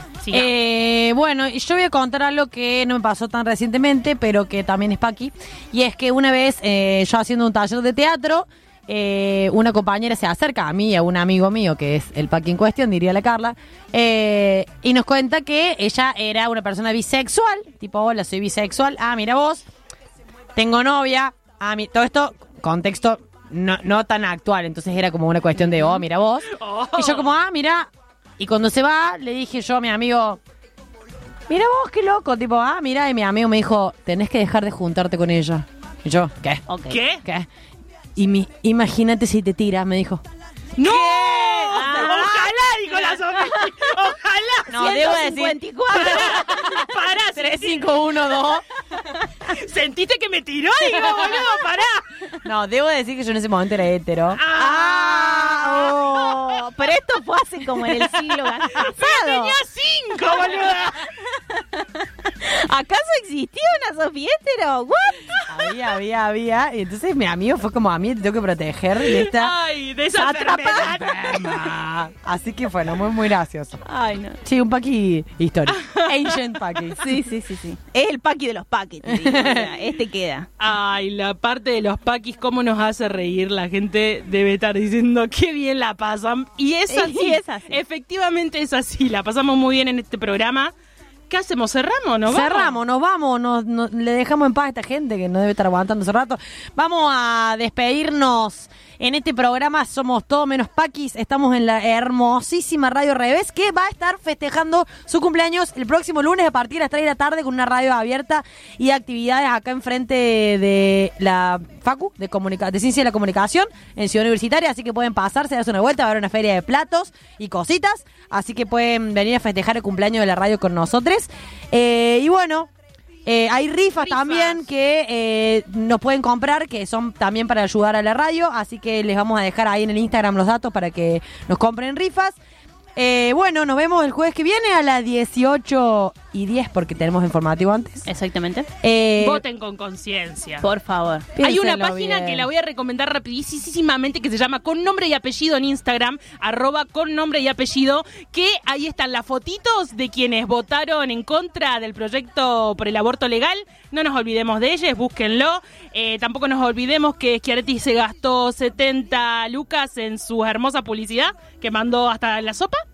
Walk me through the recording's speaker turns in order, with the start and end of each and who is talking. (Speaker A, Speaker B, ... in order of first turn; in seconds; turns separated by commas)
Speaker A: 0.2-0.5, Speaker B: 0.3-19.6, Speaker B: 20.6-30.4, Speaker A: 26.5-27.3, Speaker B: 31.5-36.6, Speaker C: 36.7-37.0, Speaker A: 36.9-37.2, Speaker B: 37.2-37.5, Speaker B: 38.2-40.2, Speaker A: 40.8-45.1, Speaker B: 40.8-42.5, Speaker C: 41.7-42.4, Speaker B: 44.7-48.6, Speaker C: 44.7-46.8, Speaker A: 45.9-47.9, Speaker A: 49.5-52.3, Speaker B: 52.4-56.5, Speaker A: 54.4-56.5, Speaker C: 54.6-59.6, Speaker A: 58.6-61.1, Speaker C: 61.2-65.4, Speaker B: 65.5-69.6, Speaker A: 69.0-71.8, Speaker B: 70.1-73.8, Speaker C: 73.9-74.4, Speaker B: 74.4-77.2, Speaker A: 75.7-76.5, Speaker C: 77.0-80.5, Speaker B: 79.1-79.7, Speaker A: 80.6-90.7, Speaker C: 86.9-87.8, Speaker A: 91.3-92.8, Speaker B: 92.3-122.7, Speaker B: 123.2-132.4, Speaker A: 124.0-124.7, Speaker B: 133.0-138.1, Speaker C: 138.1-138.7, Speaker B: 138.8-139.4, Speaker A: 139.2-140.7, Speaker C: 140.6-141.3, Speaker B: 141.3-142.5, Speaker A: 141.4-162.8